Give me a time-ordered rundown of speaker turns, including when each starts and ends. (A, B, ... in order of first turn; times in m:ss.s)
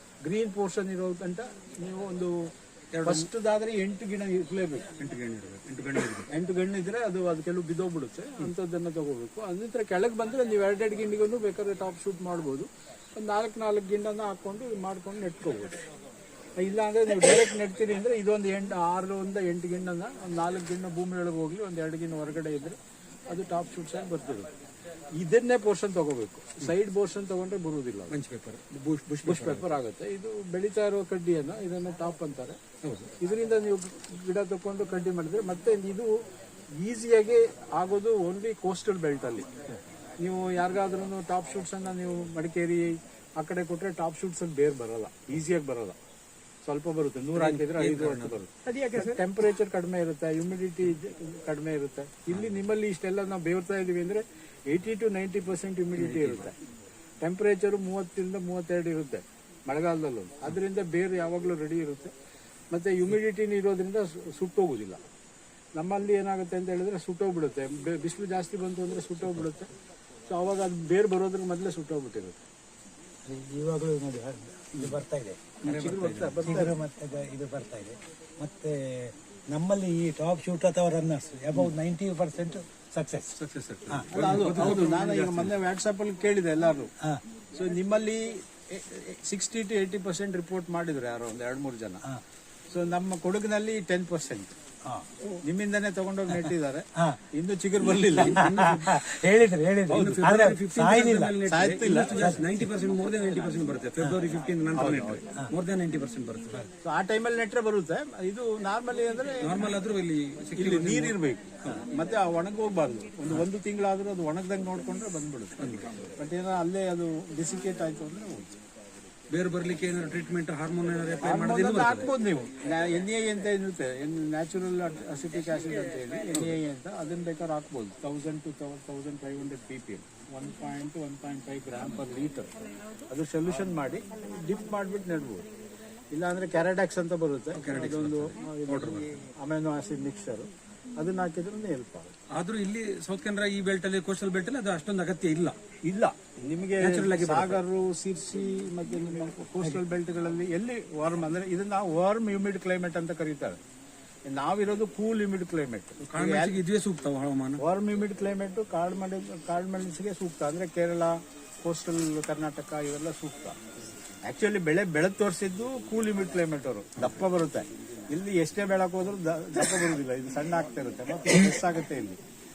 0:00.2-0:02.3 A
0:02.9-0:03.3 B
0:03.0-0:04.9 A
0:05.0-0:06.3 B
0:06.3-0:15.8 A
0:16.6-0:22.8 A
0:23.3-0:24.5 A
0:25.2-0:28.1 A
0:28.1-0:29.7 B
0:29.2-0:32.6 A
0:32.8-0:33.1 B
0:33.2-0:36.2 A
0:36.8-0:39.5 A
0:40.2-0:46.0 A
0:46.6-0:56.5 A
0:47.3-0:48.3 B
0:56.0-0:56.5 B
0:57.2-1:02.1 A
1:02.7-1:05.0 A
1:05.8-1:09.7 A
1:10.3-1:12.4 A
1:13.2-1:15.6 C
1:15.6-1:16.7 A
1:15.6-1:16.6 B
1:16.4-1:23.3 C
1:23.4-1:25.6 B
1:24.1-1:26.9 A
1:27.5-1:32.0 A
1:32.7-1:34.5 A
1:35.4-1:38.4 A
1:38.2-1:39.0 B
1:38.2-1:41.4 C
1:39.9-1:46.6 B
1:41.5-1:42.3 A
1:42.1-1:42.4 C
1:44.8-1:45.0 A
1:46.8-1:49.6 A
1:49.4-1:51.2 B
1:50.6-1:55.6 A
1:55.6-1:56.0 B
1:56.2-1:58.5 A
1:59.3-2:02.1 B
2:01.2-2:12.5 A
2:06.3-2:06.6 B
2:13.1-2:15.4 A
2:16.1-2:22.1 A
2:17.5-2:19.1 B
2:22.3-2:25.6 B
2:25.8-2:33.6 A
2:26.8-2:27.6 B
2:34.2-2:36.5 A
2:36.0-2:37.6 B
2:37.6-2:43.6 A
2:44.2-2:52.2 A